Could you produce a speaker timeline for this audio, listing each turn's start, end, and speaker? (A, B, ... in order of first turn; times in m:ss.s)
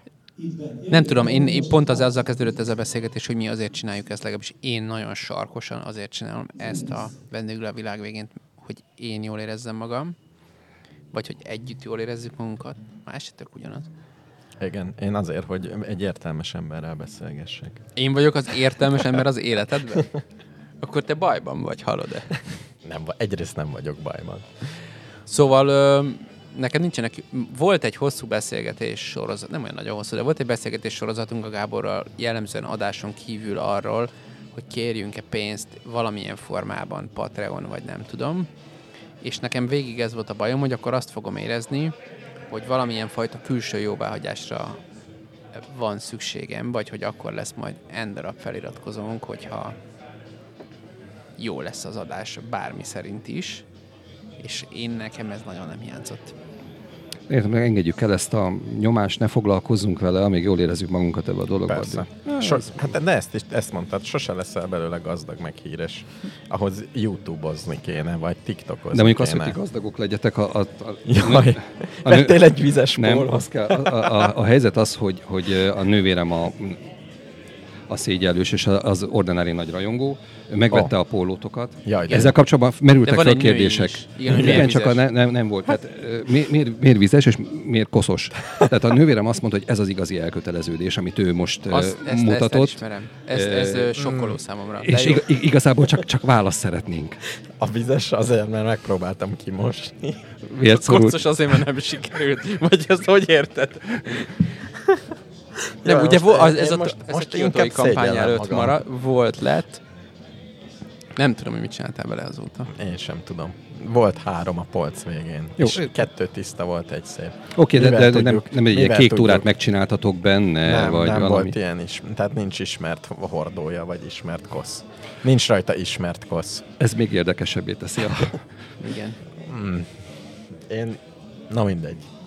0:00.9-0:10.1 A
0:11.1-0:13.9 A
0:14.6-0:17.8 B
0:18.0-0:20.1 A
0:20.8-0:22.4 A
0:22.8-0:24.5 B
0:25.3-0:38.5 A
0:39.2-0:41.9 A
0:42.5-0:44.8 A
0:45.5-0:49.8 A
0:51.4-0:53.6 A
0:54.4-0:56.3 A
0:57.3-1:02.7 C
1:01.7-1:09.6 B
1:08.9-1:12.4 C
1:11.0-1:14.3 B
1:12.9-1:16.8 C
1:17.9-1:33.9 C
1:21.8-1:22.3 B
1:23.0-1:25.0 A
1:24.3-1:24.6 B
1:31.7-1:35.3 A
1:34.0-1:34.4 B
1:34.8-1:37.2 C
1:37.5-1:40.3 B
1:40.5-1:41.2 C
1:40.6-1:44.4 A
1:45.8-1:48.8 B
1:45.8-1:49.8 A
1:51.2-1:52.7 A
1:52.7-1:59.5 B
1:55.6-1:55.9 C
1:57.6-2:01.5 C
2:00.6-2:06.6 B
2:06.8-2:08.4 C
2:08.8-2:09.2 A
2:09.4-2:09.9 B
2:10.7-2:12.0 B